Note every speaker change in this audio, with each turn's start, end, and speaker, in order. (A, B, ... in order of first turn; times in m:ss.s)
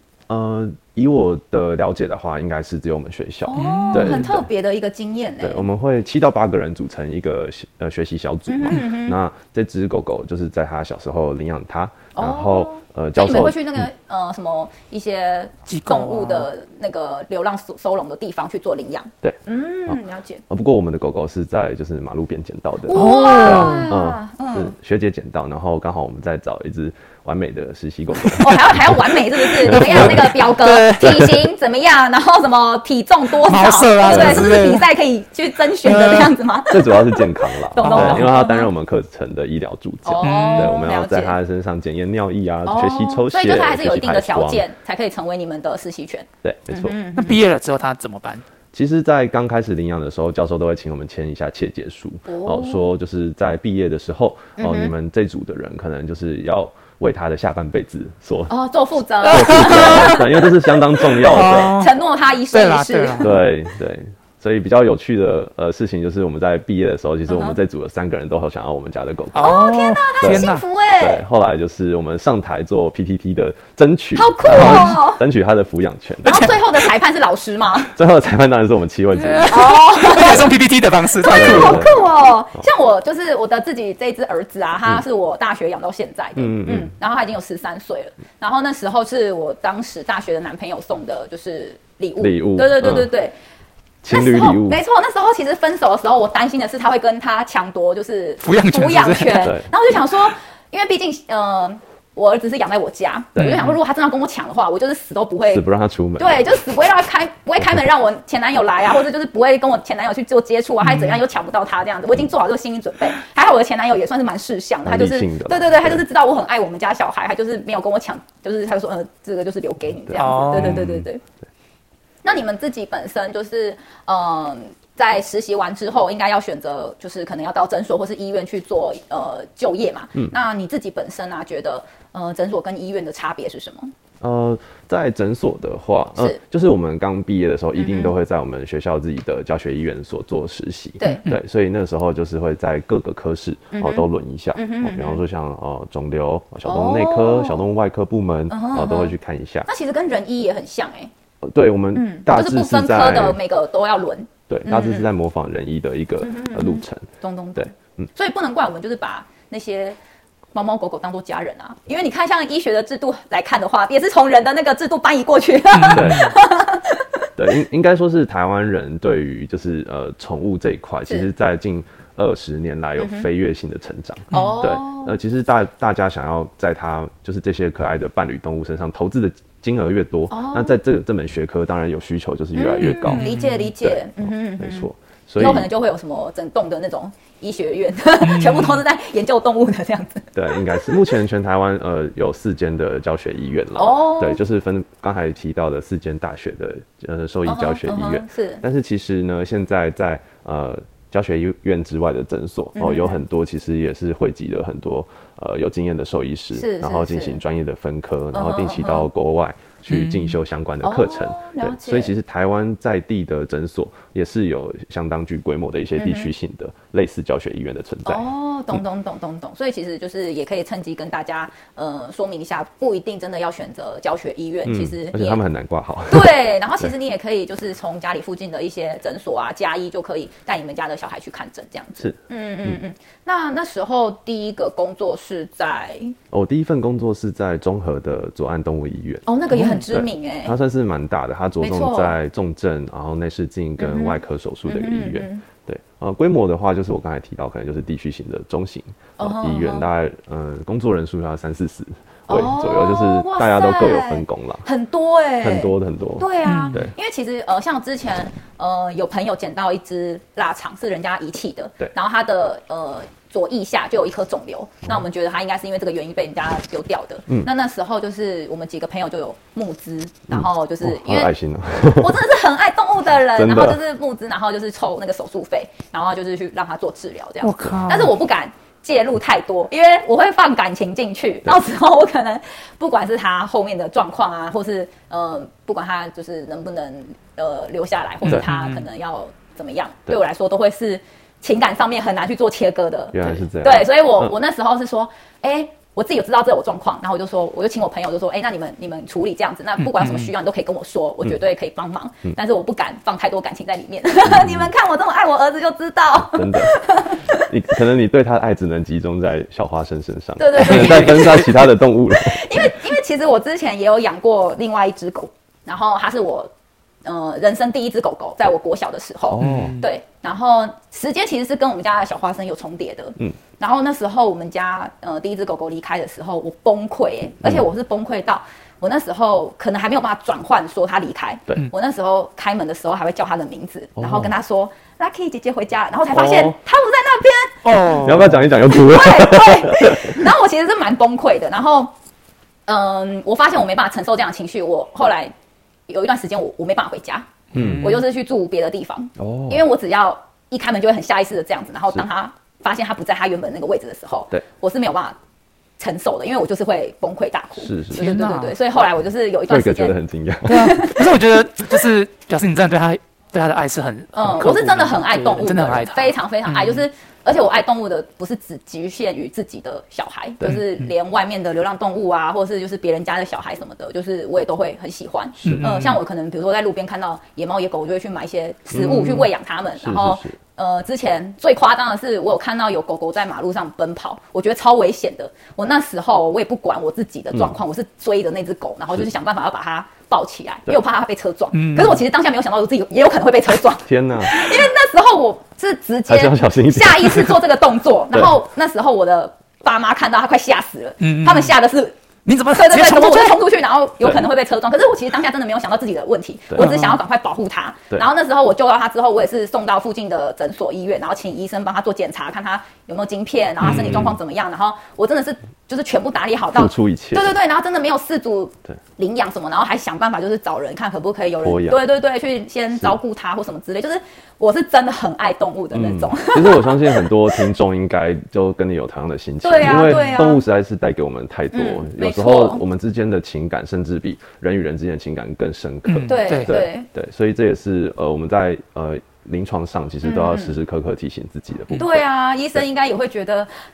0:00.3-0:04.4 A
0:03.4-0:05.6 B
0:03.6-0:04.3 C
0:05.4-0:13.7 A
0:08.5-0:09.2 B
0:12.1-0:20.4 B
0:15.7-0:16.5 C
0:19.2-0:30.3 A
0:22.9-0:24.7 B
0:22.9-0:23.9 C
0:28.3-0:38.7 B
0:29.7-0:31.3 C
0:33.4-0:34.8 C
0:34.0-0:34.6 A
0:35.8-0:36.3 C
0:36.7-0:44.6 A
0:37.8-0:38.3 C
0:40.0-0:41.4 B
0:40.2-0:40.7 C
0:42.6-0:47.4 B
0:46.4-0:47.0 A
0:47.1-0:48.4 C
0:48.7-0:58.5 A
0:52.3-0:52.9 B
0:54.6-0:54.9 B
0:58.5-1:00.2 B
0:59.2-1:01.8 A
0:59.3-1:00.3 C
1:01.2-1:01.9 C
1:01.7-1:03.4 B
1:02.5-1:03.4 C
1:03.2-1:09.6 A
1:07.3-1:07.6 B
1:09.3-1:10.6 C
1:09.4-1:11.2 B
1:10.2-1:16.4 A
1:14.1-1:15.2 B
1:14.5-1:15.0 C
1:16.2-1:17.9 B
1:16.2-1:16.6 C
1:17.9-1:19.7 A
1:19.2-1:21.9 C
1:19.5-1:20.5 B
1:21.2-1:33.3 B
1:21.3-1:22.0 A
1:26.4-1:26.9 A
1:32.2-1:33.1 A
1:34.0-1:34.8 A
1:34.1-1:45.6 B
1:38.4-1:39.5 C
1:39.4-1:39.7 A
1:43.4-1:43.6 A
1:43.4-1:43.7 C
1:45.5-1:46.5 A
1:46.2-2:01.2 B
1:50.8-1:51.2 C
1:54.8-1:56.0 A
2:00.1-2:01.0 A
2:00.2-2:00.9 C
2:02.2-2:13.9 B
2:14.2-2:29.7 A
2:17.8-2:18.1 B
2:21.0-2:21.2 B
2:23.7-2:25.2 B
2:26.6-2:27.6 B
2:28.5-2:29.2 B
2:29.7-2:31.1 B
2:31.4-2:33.4 A
2:31.9-2:35.1 B
2:34.5-2:38.1 A
2:36.2-2:40.0 B
2:40.5-2:47.1 B
2:45.7-2:46.2 C
2:45.9-2:46.3 A
2:47.4-3:05.7 A
2:53.0-2:53.2 B
2:54.3-2:54.6 C
2:54.3-2:55.2 B
3:00.3-3:00.8 B
3:02.5-3:11.0 B
3:02.8-3:03.7 C
3:08.2-3:08.8 C
3:10.3-3:38.3 A
3:13.8-3:14.4 B
3:17.4-3:18.6 B
3:22.8-3:23.2 B
3:26.5-3:27.4 B
3:28.3-3:29.1 B
3:29.9-3:30.3 C
3:30.8-3:32.1 B
3:36.0-3:36.3 B
3:38.0-3:45.4 B
3:44.6-3:46.3 A
3:46.1-3:56.2 B
3:52.0-3:52.8 A
3:56.3-4:14.6 A
3:59.2-4:00.6 B
3:59.5-3:59.8 C
4:01.6-4:02.1 B
4:03.8-4:05.4 B
4:09.2-4:09.8 B
4:12.3-4:31.3 B
4:15.4-4:16.9 A
4:16.4-4:16.8 C
4:30.3-4:32.2 A
4:31.9-5:07.4 B
4:33.3-4:33.8 A
4:37.4-4:38.1 C
4:48.2-4:48.8 C
4:53.1-4:54.3 A
4:59.8-5:00.3 C
5:04.2-5:04.7 A
5:06.2-5:12.7 A
5:10.4-5:11.5 B
5:10.6-5:11.4 C
5:12.1-5:16.5 B
5:17.0-5:41.9 B
5:19.3-5:19.8 A
5:19.4-5:19.8 C
5:34.0-5:34.3 A
5:36.1-5:36.6 A
5:37.6-5:38.4 C
5:38.0-5:40.2 A
5:42.7-5:45.3 B
5:45.9-5:55.2 B
5:47.5-5:47.8 A
5:47.5-5:48.0 C
5:49.2-5:49.6 A
5:55.8-6:00.0 B
5:57.6-5:58.1 A
5:57.9-5:58.6 C
5:59.5-6:00.8 A
6:00.4-6:06.8 C
6:00.5-6:01.1 B
6:04.1-6:42.0 B
6:10.4-6:10.9 C
6:15.4-6:15.7 A
6:15.4-6:16.0 C
6:18.7-6:19.2 A
6:19.8-6:20.4 A
6:31.5-6:32.0 C
6:33.8-6:34.5 A
6:36.1-6:37.4 A
6:41.0-6:41.5 C
6:42.2-6:43.4 C
6:42.5-7:07.4 B
6:46.6-6:47.0 C
6:53.6-6:54.2 A
6:56.5-6:57.3 A
7:01.4-7:01.8 A
7:05.7-7:22.0 A
7:09.4-7:10.4 B
7:09.6-7:10.2 C
7:11.5-7:12.6 B
7:15.9-7:16.6 C
7:16.0-7:16.9 B
7:20.0-7:20.6 B
7:21.7-7:23.5 B